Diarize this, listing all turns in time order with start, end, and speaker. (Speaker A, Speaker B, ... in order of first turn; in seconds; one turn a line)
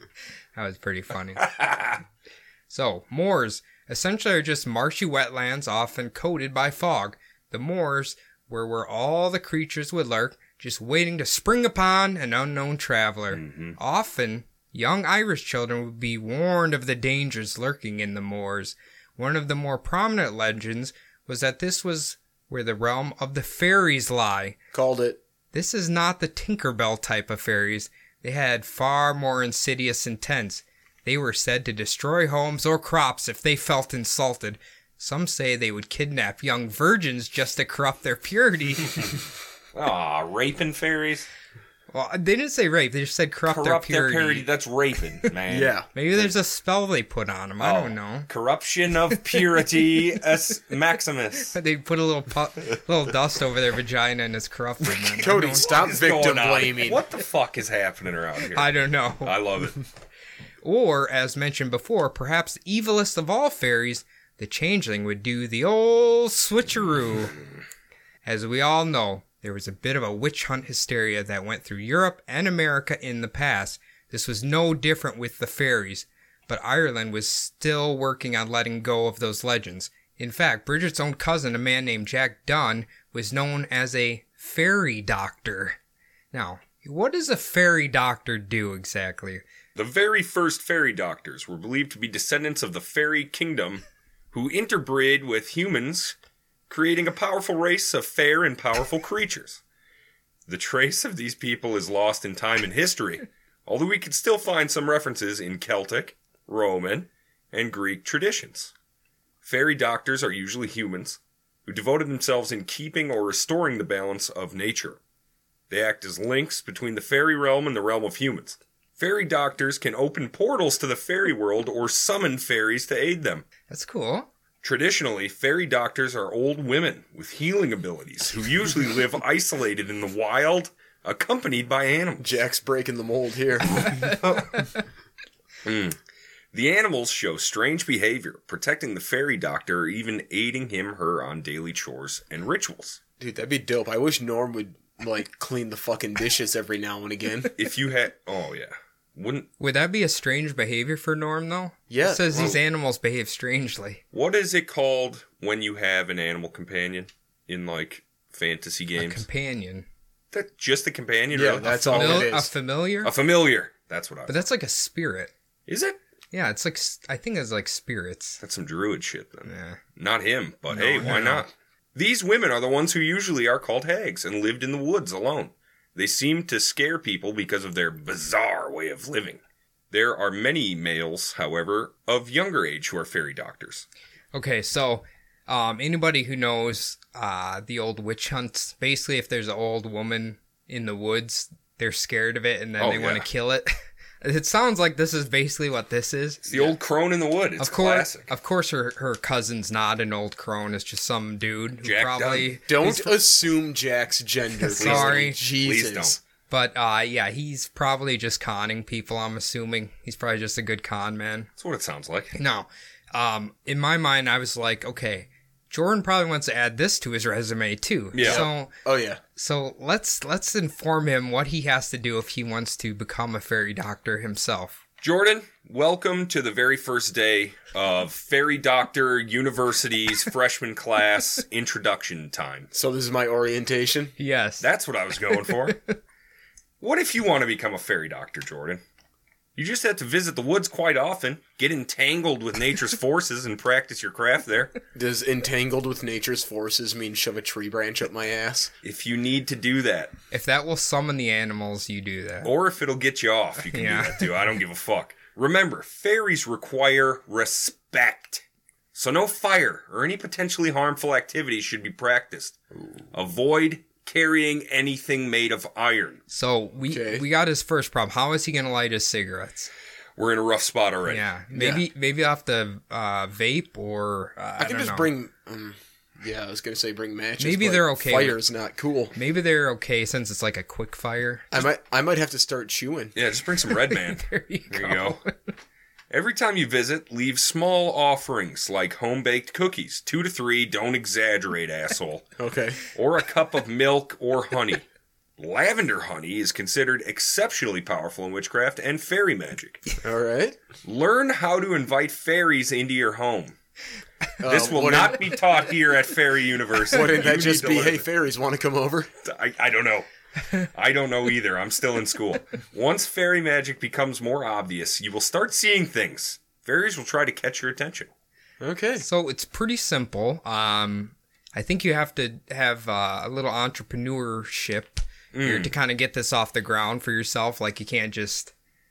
Speaker A: 0.6-1.5
Speaker B: 1.4-2.0
Speaker A: 2.7-24.6
Speaker B: 13.3-13.8
Speaker C: 24.7-25.2
Speaker A: 25.5-39.1
Speaker B: 39.7-41.3
Speaker A: 41.9-44.5
Speaker B: 43.5-46.3
Speaker C: 45.5-45.9
Speaker A: 45.9-48.3
Speaker B: 47.6-51.5
Speaker A: 51.5-55.9
Speaker C: 55.1-57.0
Speaker B: 55.6-58.7
Speaker A: 58.5-59.3
Speaker B: 59.2-59.8
Speaker A: 60.6-67.3
Speaker A: 68.2-85.8
Speaker A: 86.3-89.4
Speaker B: 89.7-96.1
Speaker B: 96.7-99.6
Speaker B: 100.5-108.7
Speaker B: 109.4-115.0
Speaker B: 115.7-123.4
Speaker A: 123.7-124.3
Speaker B: 124.6-132.3
Speaker C: 132.2-134.1
Speaker B: 134.0-134.5
Speaker B: 135.6-136.0
Speaker B: 136.5-143.0
Speaker C: 143.2-147.5
Speaker B: 147.5-149.5
Speaker A: 149.6-154.0
Speaker C: 151.9-152.6
Speaker B: 154.1-159.2
Speaker A: 159.0-159.9
Speaker B: 160.3-162.3
Speaker C: 161.3-162.5
Speaker A: 161.6-163.1
Speaker B: 163.0-164.4
Speaker A: 164.3-165.3
Speaker B: 165.7-166.0
Speaker A: 166.3-168.4
Speaker B: 168.4-179.4
Speaker A: 169.5-169.8
Speaker A: 170.7-171.5
Speaker B: 179.9-183.9
Speaker A: 184.3-193.7
Speaker B: 192.8-193.2
Speaker A: 194.2-196.7
Speaker B: 196.5-198.3
Speaker A: 197.6-203.2
Speaker B: 201.8-202.6
Speaker C: 202.7-206.2
Speaker A: 204.6-205.4
Speaker B: 204.8-206.2
Speaker A: 206.5-211.5
Speaker B: 211.6-212.3
Speaker A: 212.3-218.7
Speaker B: 218.1-218.4
Speaker C: 218.2-219.2
Speaker A: 219.4-224.8
Speaker B: 225.0-232.7
Speaker C: 232.7-234.1
Speaker A: 234.2-234.7
Speaker B: 234.6-235.8
Speaker A: 235.3-235.9
Speaker B: 236.8-238.8
Speaker B: 239.6-244.7
Speaker C: 244.9-248.7
Speaker B: 248.8-250.1
Speaker A: 250.3-252.5
Speaker B: 252.4-258.4
Speaker A: 253.7-254.2
Speaker B: 258.9-262.6
Speaker B: 263.1-266.2
Speaker A: 266.3-269.7
Speaker C: 266.9-267.2
Speaker B: 270.2-271.2
Speaker A: 271.1-275.1
Speaker C: 271.5-271.8
Speaker C: 274.6-279.1
Speaker A: 277.4-278.4
Speaker A: 279.1-281.4
Speaker C: 281.5-283.1
Speaker B: 283.1-285.2
Speaker A: 283.9-285.5
Speaker B: 286.1-292.3
Speaker C: 292.4-292.8
Speaker B: 292.9-294.9
Speaker B: 295.4-299.8
Speaker C: 300.0-300.6
Speaker B: 300.8-303.5
Speaker C: 304.4-305.2
Speaker B: 304.4-308.1
Speaker C: 306.9-309.1
Speaker B: 309.2-310.1
Speaker B: 310.7-318.1
Speaker C: 318.6-319.0
Speaker A: 319.0-328.5
Speaker B: 325.3-325.7